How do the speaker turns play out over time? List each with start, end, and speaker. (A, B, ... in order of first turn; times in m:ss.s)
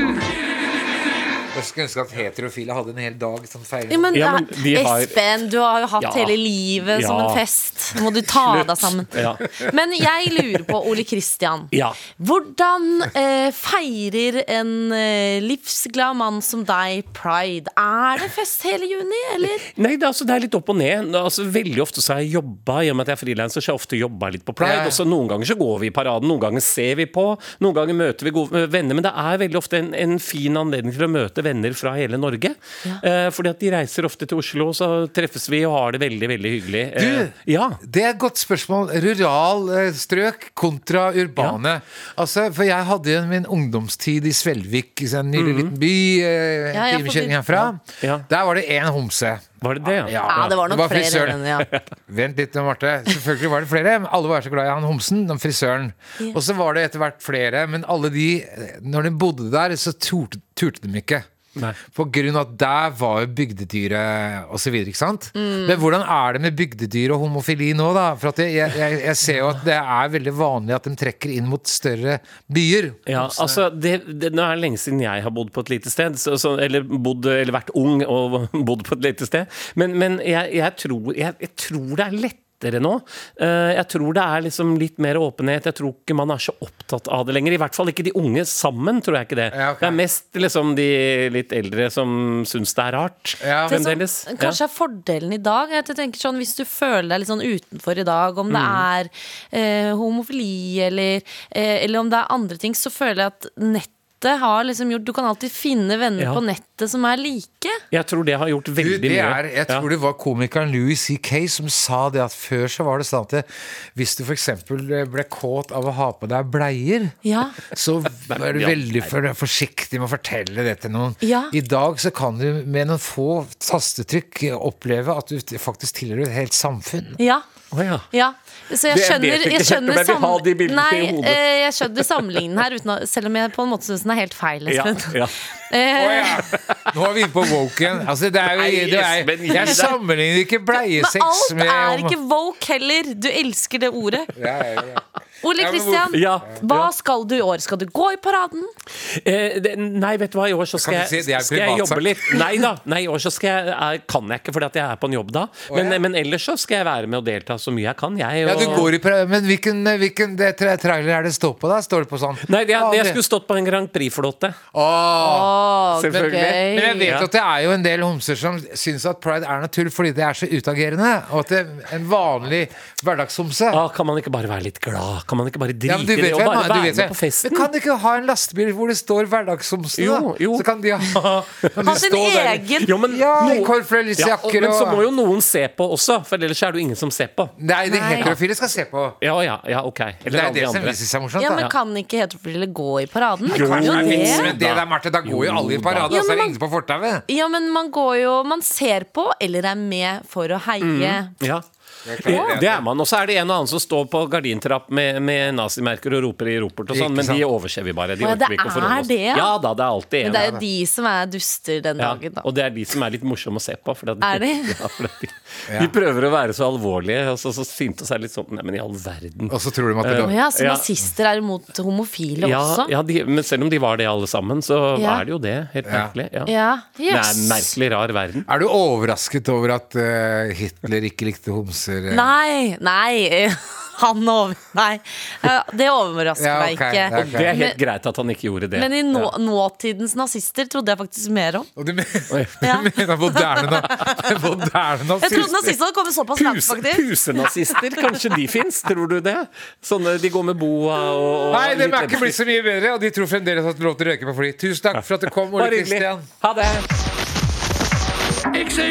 0:01.5-0:04.2 A
0:03.9-0:19.6 B
0:04.1-0:05.2 C
0:06.0-0:07.4 C
0:08.3-0:09.4 C
0:11.7-0:12.0 C
0:19.7-0:37.8 C
0:24.6-0:25.0 A
0:37.0-1:01.2 A
0:45.4-0:45.7 C
0:46.7-0:47.4 B
0:47.6-0:48.3 C
0:49.6-0:50.3 C
0:50.3-0:51.7 B
1:01.9-1:13.6 A
1:05.4-1:05.8 B
1:13.1-1:34.6 C
1:29.5-1:30.0 A
1:33.4-1:33.8 A
1:33.7-1:47.8 B
1:38.5-1:38.9 C
1:47.9-1:49.9 C
1:48.8-2:07.2 A
1:57.2-1:57.6 B
1:58.3-1:59.1 C
2:01.2-2:01.5 B
2:07.2-2:07.4 B
2:07.7-2:08.1 C
2:08.1-2:15.2 B
2:08.9-2:12.5 C
2:14.7-2:15.4 C
2:15.7-2:16.4 B
2:15.9-2:22.2 A
2:16.5-2:16.9 C
2:18.4-2:20.0 C
2:20.7-2:24.3 B
2:24.4-2:26.2 A
2:25.4-2:28.7 B
2:26.1-2:26.9 C
2:29.1-2:38.9 C
2:30.8-2:32.5 A
2:35.7-2:36.0 A
2:38.4-2:43.2 A
2:38.6-2:38.9 B
2:42.5-2:44.6 C
2:44.7-2:45.5 A
2:45.2-2:47.1 B
2:46.0-2:47.3 C
2:46.1-2:53.8 A
2:53.7-2:57.7 C
2:55.9-3:05.0 A
3:00.0-3:00.7 C
3:01.8-3:02.9 B
3:02.8-3:07.5 C
3:07.6-3:09.2 A
3:07.9-3:08.3 B
3:09.2-3:11.0 C
3:10.3-3:11.7 A
3:11.4-3:14.5 B
3:13.5-3:17.2 A
3:13.5-3:16.1 C
3:16.1-3:16.6 B
3:17.3-3:21.3 B
3:20.8-3:21.6 C
3:22.0-3:22.9 A
3:22.2-3:30.6 C
3:22.3-3:22.6 B
3:26.9-3:27.4 A
3:28.2-3:29.5 B
3:30.2-3:32.5 B
3:30.3-3:30.6 A
3:32.0-3:40.8 C
3:34.2-3:34.8 B
3:35.7-3:35.9 A
3:39.5-3:40.4 A
3:40.2-3:42.9 B
3:42.4-3:46.5 C
3:45.0-3:45.2 B
3:45.9-3:46.1 A
3:46.5-3:47.7 B
3:47.1-3:48.5 C
3:48.5-3:52.3 A
3:52.1-3:57.8 B
3:56.4-3:57.6 A
3:57.1-3:59.3 C
3:58.7-4:01.7 B
4:01.8-4:05.7 A
4:02.3-4:02.6 C
4:02.6-4:04.3 B
4:05.2-4:07.1 B
4:06.4-4:12.4 C
4:07.7-4:08.0 B
4:11.5-4:16.3 A
4:15.5-4:16.9 C